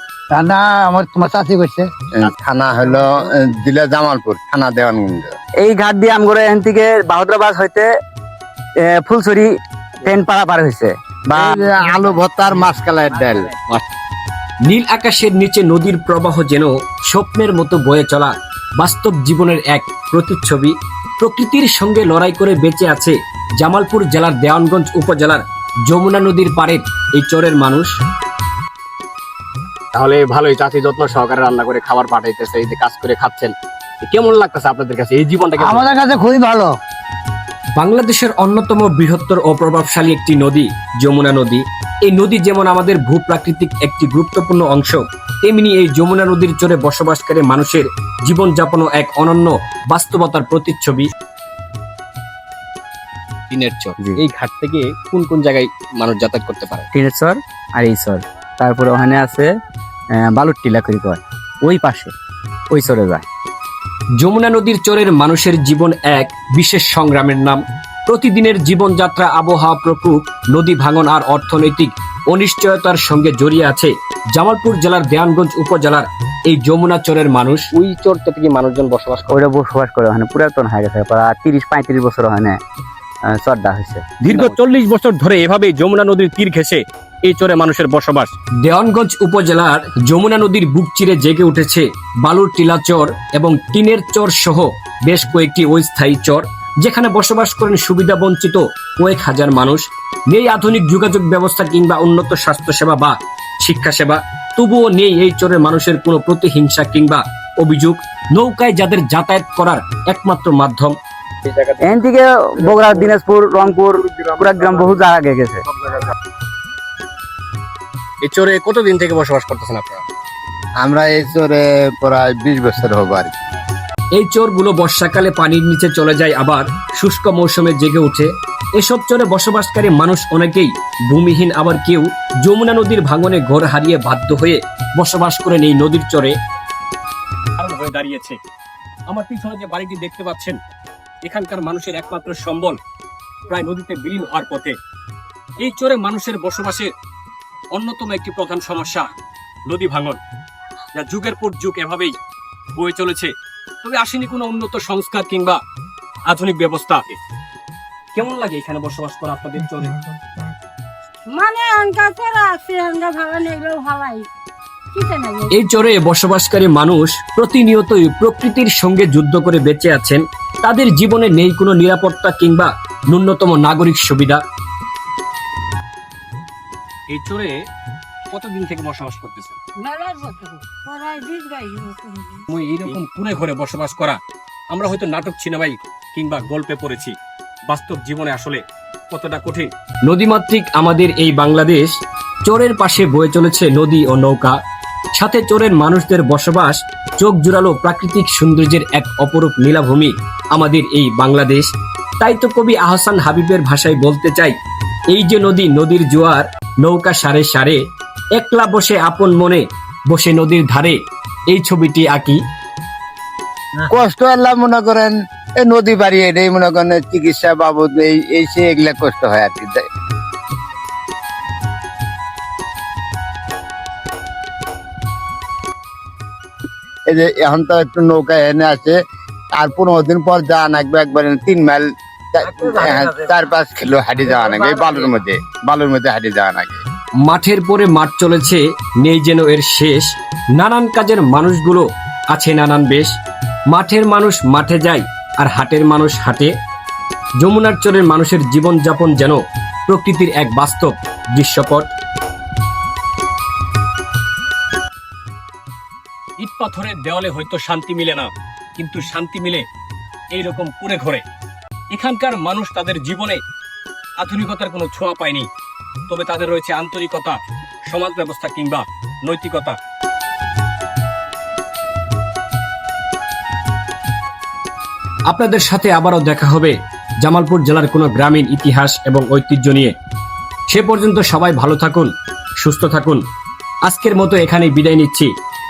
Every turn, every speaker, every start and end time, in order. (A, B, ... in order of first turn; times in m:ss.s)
0:00.3-0:01.9 A
0:02.2-0:05.3 B
0:05.6-0:07.9 C
0:08.9-0:09.5 C
0:10.0-0:11.6 C
0:11.4-0:13.5 B
0:14.7-0:27.9 D
0:29.9-0:33.5 D
0:34.0-0:36.0 D
0:35.6-0:36.8 A
0:37.8-0:51.1 D
0:53.5-0:56.9 D
0:56.9-0:59.5 C
1:00.2-1:02.1 C
1:02.7-1:03.3 C
1:04.2-1:19.4 D
1:19.3-1:22.6 C
1:23.4-1:24.5 C
1:24.2-1:51.0 D
1:51.5-1:51.9 D
1:51.8-1:55.6 C
1:52.8-1:53.1 D
1:54.1-1:55.1 D
1:58.2-2:00.0 D
2:00.8-2:03.3 B
2:04.2-2:16.4 D
2:17.6-2:18.4 D
2:19.1-2:20.6 D
2:21.2-2:22.8 D
2:23.5-2:24.8 D
2:25.6-2:26.9 D
2:27.7-2:29.1 D
2:29.7-2:30.2 D
2:30.9-2:32.2 D
2:32.8-2:35.6 D
2:36.3-2:37.2 D
2:38.1-2:40.0 D
2:41.3-2:44.2 E
2:44.9-2:45.6 E
2:45.5-2:54.4 D
2:57.1-2:57.6 D
2:58.3-2:59.6 D
2:59.8-3:02.5 E
3:02.5-3:04.2 D
3:04.7-3:07.2 D
3:07.7-3:11.9 D
3:12.4-3:14.6 D
3:15.2-3:24.6 D
3:25.1-3:27.8 D
3:28.4-3:31.0 D
3:31.5-3:32.4 D
3:33.9-3:39.8 B
3:47.1-3:49.0 B
3:49.6-3:56.8 B
3:52.4-3:53.3 D
3:54.6-3:55.1 D
3:57.2-4:03.1 D
4:03.7-4:06.5 D
4:07.4-4:11.9 D
4:16.4-4:19.6 D
4:20.3-4:21.2 D
4:21.9-4:23.4 D
4:24.2-4:25.5 D
4:26.1-4:29.8 D
4:35.3-4:39.9 D
4:40.7-4:43.2 D
4:43.9-4:45.3 D